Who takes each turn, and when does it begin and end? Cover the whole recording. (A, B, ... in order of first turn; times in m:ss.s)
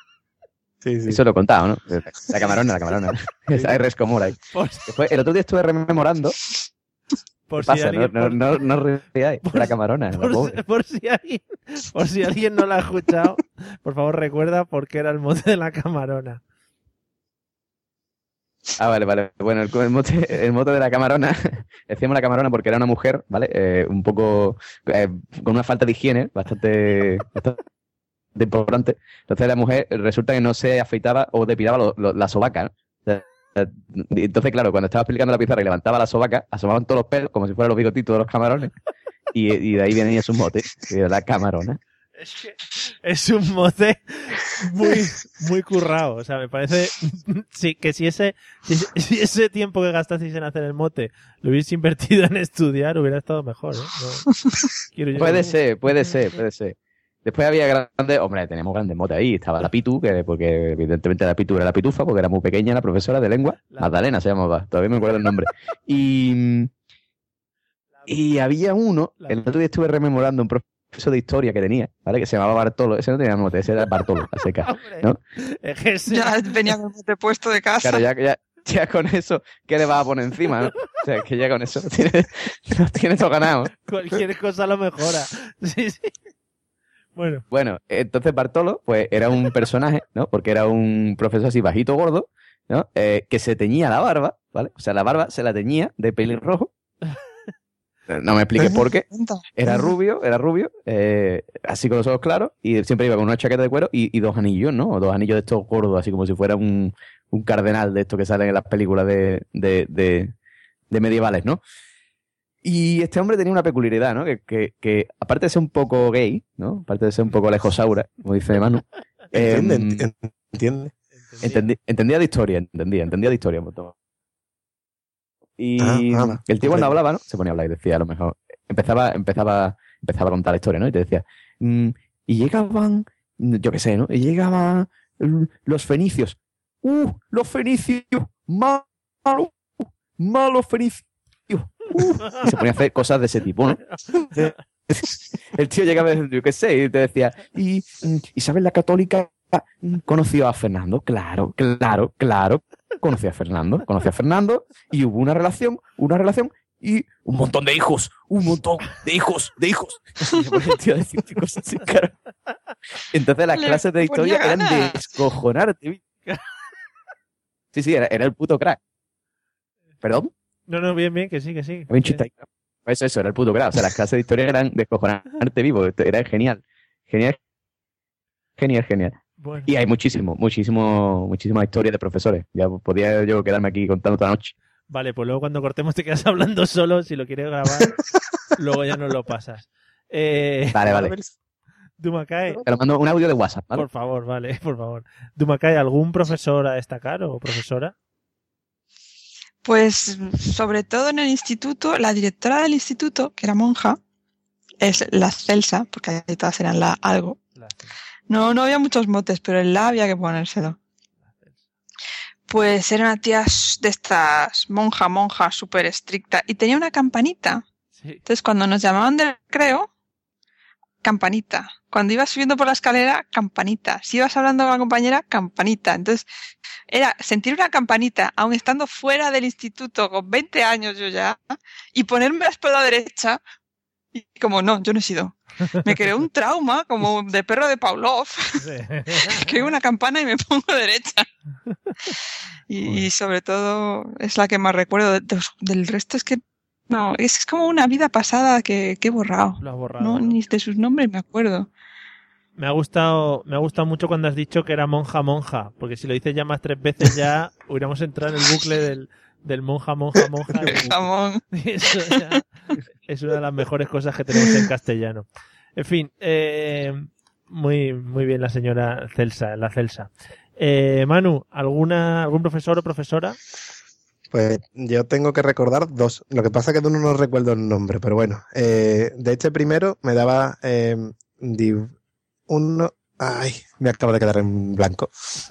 0:00.8-0:01.2 A
0:01.1-0:04.4 B
0:04.5-0:04.9 C
0:04.9-0:06.4 B
0:07.5-0:08.6 C
0:07.6-0:10.6 B
0:09.4-0:16.4 C
0:18.8-0:27.6 B
0:28.3-0:38.7 B
0:39.3-0:41.8 B
0:42.2-0:54.3 C
0:54.9-0:56.1 C
0:55.2-1:06.7 B
1:03.7-1:03.9 C
1:08.1-1:15.2 B
1:14.6-1:16.5 C
1:16.1-1:18.0 D
1:17.8-1:23.7 B
1:23.8-1:26.1 C
1:27.2-1:27.4 C
1:27.5-1:36.7 B
1:38.1-1:39.0 B
1:39.1-1:39.9 D
1:39.6-1:50.3 B
1:50.9-1:51.6 B
1:52.6-2:00.0 B
1:59.3-2:00.9 A
2:01.2-2:01.7 C
2:01.4-2:03.9 B
2:05.6-2:19.5 B
2:05.8-2:06.9 A
2:20.2-2:23.8 B
2:23.9-2:24.5 C
2:24.9-2:42.1 B
2:43.1-2:46.0 B
2:43.6-2:45.0 D
2:47.7-2:48.8 B
2:50.0-2:50.3 B
2:50.7-2:52.3 C
2:51.9-2:52.3 B
2:52.8-2:57.4 B
2:58.6-3:04.5 B
2:59.4-2:59.7 C
3:04.9-3:07.9 C
3:08.6-3:10.8 C
3:10.7-3:11.1 B
3:10.8-3:11.3 A
3:12.0-3:12.6 C
3:12.6-3:13.9 B
3:13.7-3:17.9 C
3:19.6-3:24.0 D
3:24.8-3:27.4 D
3:27.6-3:27.9 C
3:28.3-3:30.8 D
3:32.5-3:37.6 D
3:38.0-3:38.2 C
3:38.2-3:39.9 D
3:41.0-3:46.3 D
3:46.9-3:53.4 D
3:54.1-3:58.6 D
3:58.6-3:59.5 C
3:59.2-4:01.3 D
4:01.7-4:02.1 C
4:02.7-4:11.7 D
4:09.6-4:10.4 C
4:12.6-4:21.0 C
4:20.6-4:21.4 D
4:21.5-4:22.4 C
4:23.1-4:33.4 C
4:34.3-4:41.9 A
4:42.5-4:45.1 A